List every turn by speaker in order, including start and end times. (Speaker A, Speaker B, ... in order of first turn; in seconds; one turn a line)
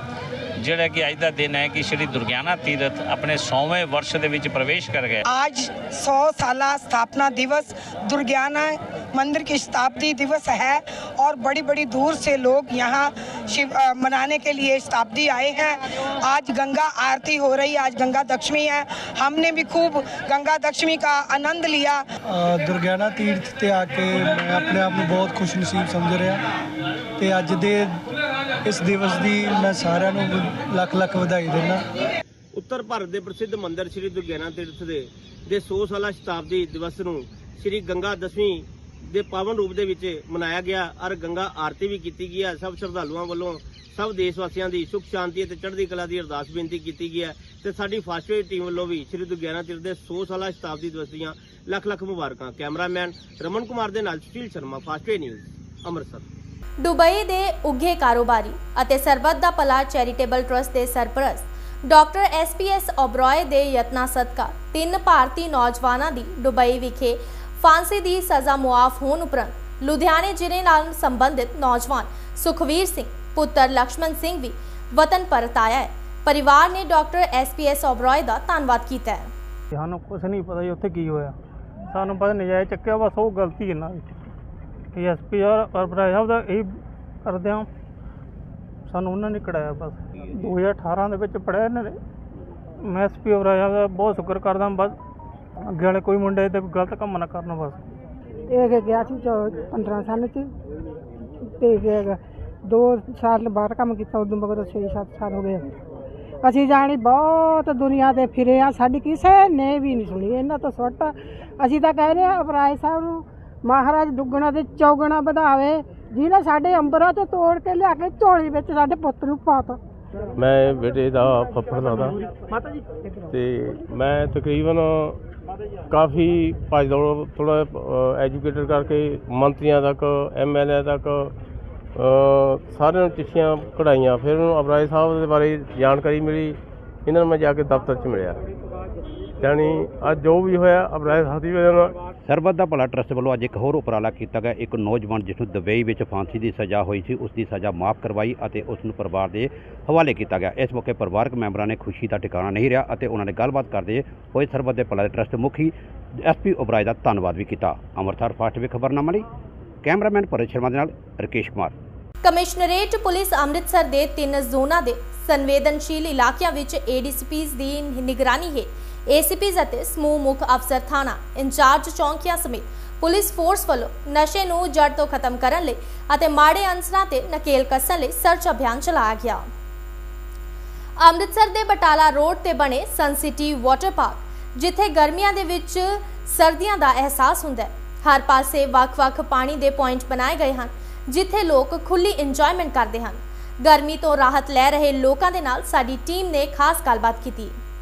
Speaker A: 0.6-5.2
Speaker B: 5.3-22.0
Speaker C: 22.3-26.4
Speaker C: 27.2-28.0
Speaker C: 28.6-31.8
Speaker D: 32.5-56.3
Speaker E: 56.8-79.3
Speaker F: 79.7-81.4
Speaker F: 81.9-84.2
Speaker F: 84.9-87.7
Speaker F: 88.9-92.0
Speaker F: 92.8-95.0
Speaker F: 95.7-97.8
Speaker G: 98.5-100.5
Speaker G: 101.6-105.7
Speaker G: 106.4-119.8
Speaker H: 120.4-122.2
Speaker H: 123.3-125.2
Speaker H: 125.9-131.3
Speaker H: 132.0-138.4
Speaker H: 139.4-142.0
Speaker I: 142.3-159.3
Speaker I: 159.8-161.7
Speaker E: 162.2-179.4
Speaker E: 181.0-197.6